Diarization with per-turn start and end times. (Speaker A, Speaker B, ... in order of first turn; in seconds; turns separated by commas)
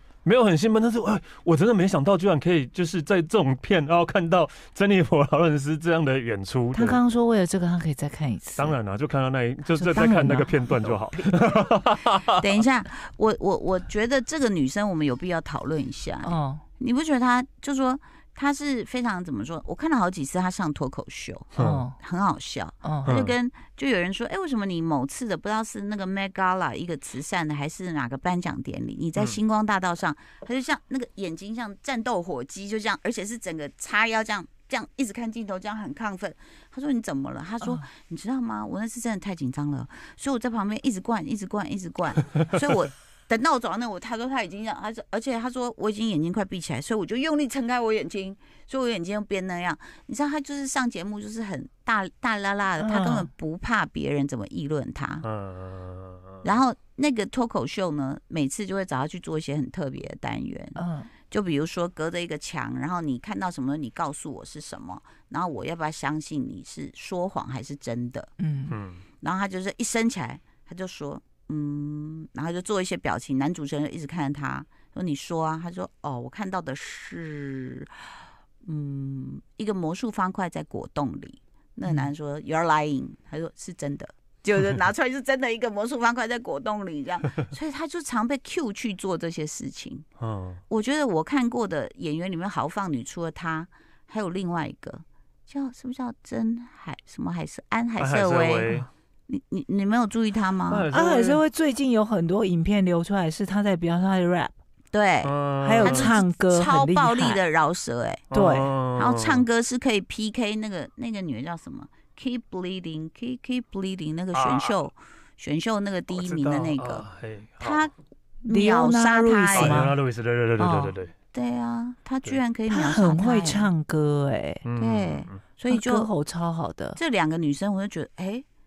Speaker A: 0.2-7.0, Speaker B: 6.7-8.7, Speaker A: 8.6-12.3, Speaker B: 9.8-10.9, Speaker C: 12.4-55.2, Speaker B: 16.2-16.6, Speaker A: 21.5-21.8, Speaker B: 21.6-21.9, Speaker B: 22.8-23.1, Speaker A: 23.1-23.3, Speaker B: 52.8-53.3, Speaker A: 55.2-56.6, Speaker C: 56.4-68.3, Speaker B: 60.8-61.1, Speaker B: 68.4-68.8, Speaker A: 68.7-69.0, Speaker C: 69.2-77.9, Speaker C: 78.6-90.0, Speaker A: 90.2-90.6, Speaker C: 90.7-98.7, Speaker A: 98.0-98.9, Speaker C: 99.3-100.9, Speaker A: 100.7-101.4, Speaker B: 100.9-104.5, Speaker C: 104.9-108.3, Speaker A: 105.2-106.1, Speaker B: 105.6-107.4, Speaker A: 108.3-109.4, Speaker B: 108.3-108.7, Speaker C: 109.0-117.0, Speaker A: 114.3-114.9, Speaker A: 116.1-117.9, Speaker C: 117.6-117.9, Speaker C: 118.5-119.8, Speaker B: 118.5-120.0, Speaker A: 119.5-121.1, Speaker B: 120.6-120.9, Speaker C: 121.3-123.7, Speaker B: 122.7-124.6, Speaker A: 124.6-125.4, Speaker C: 124.8-126.1, Speaker B: 125.7-127.0, Speaker C: 126.9-128.4